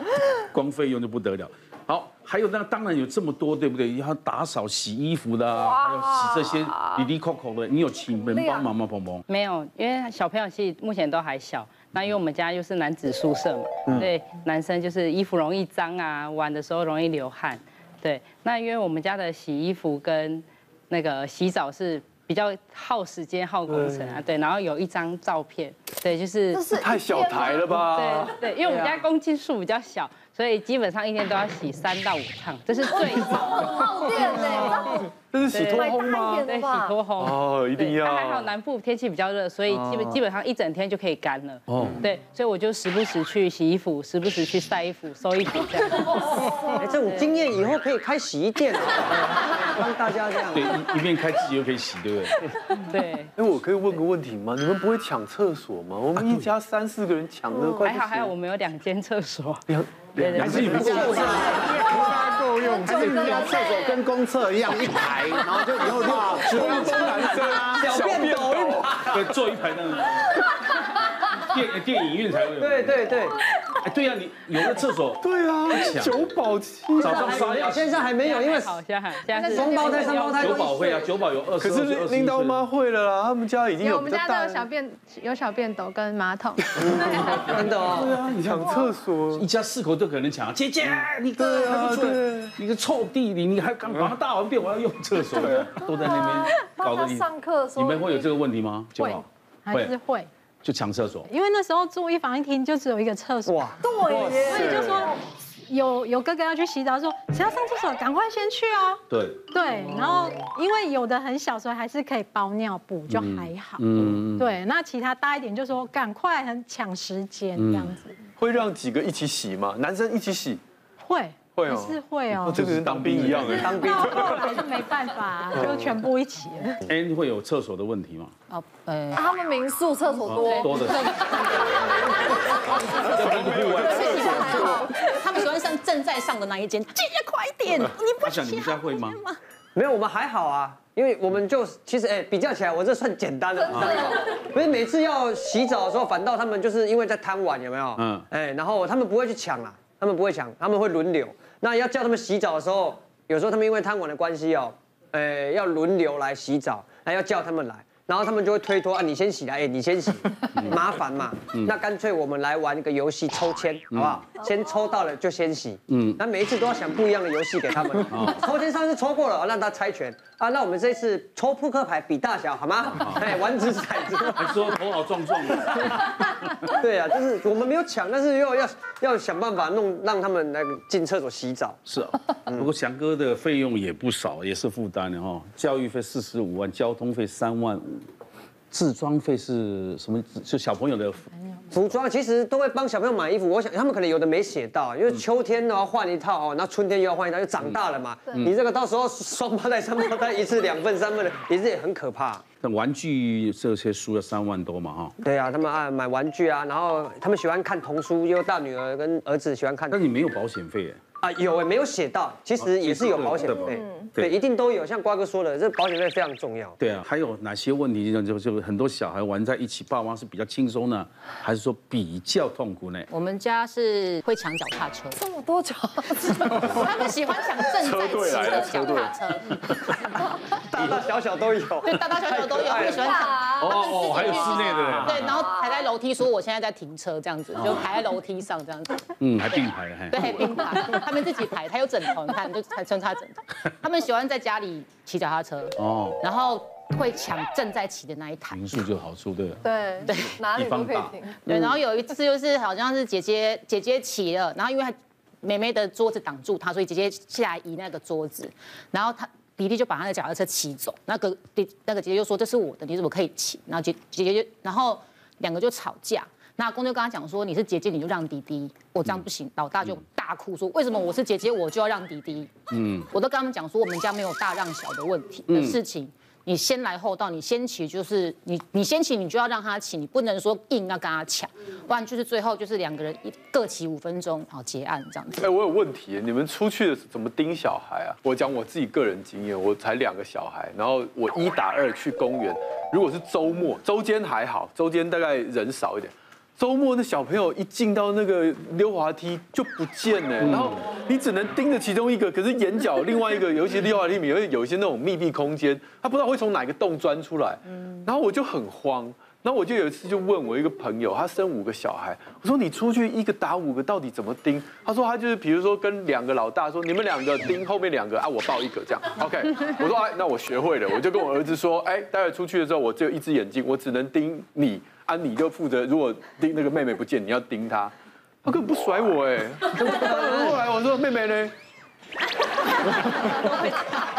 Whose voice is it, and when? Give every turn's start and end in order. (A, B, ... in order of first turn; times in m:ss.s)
0:00.5-0:09.2 A
0:05.5-0:07.1 B
0:08.2-0:08.7 B
0:09.3-0:26.7 C
0:23.7-0:24.2 D
0:26.5-0:27.9 B
0:26.7-0:29.0 D
0:27.5-0:47.3 C
0:32.8-0:35.1 B
0:35.3-0:36.5 D
0:35.7-0:37.1 B
0:37.2-0:38.5 D
0:39.7-0:40.2 E
0:41.7-0:42.1 A
0:46.8-0:50.8 E
0:50.5-0:52.4 A
0:52.7-0:53.3 C
0:53.4-0:58.3 D
0:56.2-0:56.5 A
0:57.5-0:57.9 B
0:57.8-0:59.6 C
0:59.7-1:01.6 D
1:00.2-1:01.2 C
1:00.3-1:01.4 A
1:00.4-1:07.9 F
1:02.6-1:04.0 B
1:02.9-1:03.4 D
1:05.8-1:09.2 D
1:06.8-1:07.1 E
1:07.7-1:09.2 E
1:09.0-1:10.4 A
1:11.3-1:13.2 A
1:12.6-1:13.4 E
1:13.8-1:16.3 A
1:15.2-1:17.6 D
1:17.0-1:18.0 A
1:17.0-1:18.8 E
1:18.2-1:20.9 C
1:19.4-1:21.0 E
1:20.4-1:22.6 A
1:21.6-1:24.7 D
1:23.8-1:27.4 G
1:26.8-1:29.5 D
1:27.4-1:39.9 A
1:27.4-1:28.1 E
1:31.4-1:32.6 D
1:35.4-1:35.6 D
1:35.8-1:38.3 B
1:39.0-1:40.3 H
1:40.6-1:41.3 A
1:41.3-1:43.8 H
1:43.5-1:43.8 E
1:43.8-1:45.1 B
1:44.1-1:45.1 D
1:44.3-1:45.2 H
1:45.7-1:58.2 H
1:49.1-1:49.4 A
1:53.1-1:54.5 A
1:57.6-1:58.0 A
1:58.4-2:00.6 D
2:01.0-2:02.7 H
2:01.6-2:04.4 D
2:02.6-2:03.6 A
2:03.5-2:04.5 E
2:03.6-2:06.8 H
2:05.6-2:06.0 D
2:06.9-2:08.3 A
2:08.5-2:09.2 I
2:09.2-2:11.6 B
2:10.2-2:11.3 A
2:11.2-2:11.7 I
2:12.9-2:14.8 A
2:13.2-2:14.1 D
2:13.7-2:19.4 I
2:13.8-2:15.0 B
2:18.2-2:19.2 A
2:19.8-2:54.8 E
2:23.7-2:24.0 A
2:23.8-2:24.4 B
2:28.0-2:28.3 A
2:40.6-2:40.8 A
2:43.9-2:44.3 A
2:45.9-2:46.2 A
2:48.1-2:48.4 A
2:52.9-2:53.4 A
2:54.3-2:56.7 A
2:55.5-3:01.8 E
3:01.9-3:08.1 A
3:08.7-3:11.3 A
3:11.7-3:22.4 E
3:22.6-3:25.1 A
3:25.2-3:30.0 E
3:29.9-3:31.0 A
3:31.2-3:36.8 E
3:32.6-3:34.4 A
3:33.6-3:34.1 B
3:36.8-3:43.1 A
3:43.1-3:45.2 I
3:45.1-3:46.7 B
3:46.5-3:50.0 I
3:46.6-3:47.1 D
3:47.7-3:49.2 D
3:50.6-3:53.2 E
3:51.8-4:08.6 I
3:52.8-3:55.8 B
3:53.6-3:55.3 A
3:57.6-3:57.8 A
3:59.2-4:01.1 A
4:05.8-4:06.2 A
4:08.5-4:11.7 A
4:09.6-4:11.4 B
4:11.5-4:45.5 I
4:32.7-4:33.1 A
4:35.5-4:35.8 A
4:45.4-5:31.5 D
5:00.4-5:00.8 A
5:30.2-5:30.5 E
5:32.9-5:33.6 D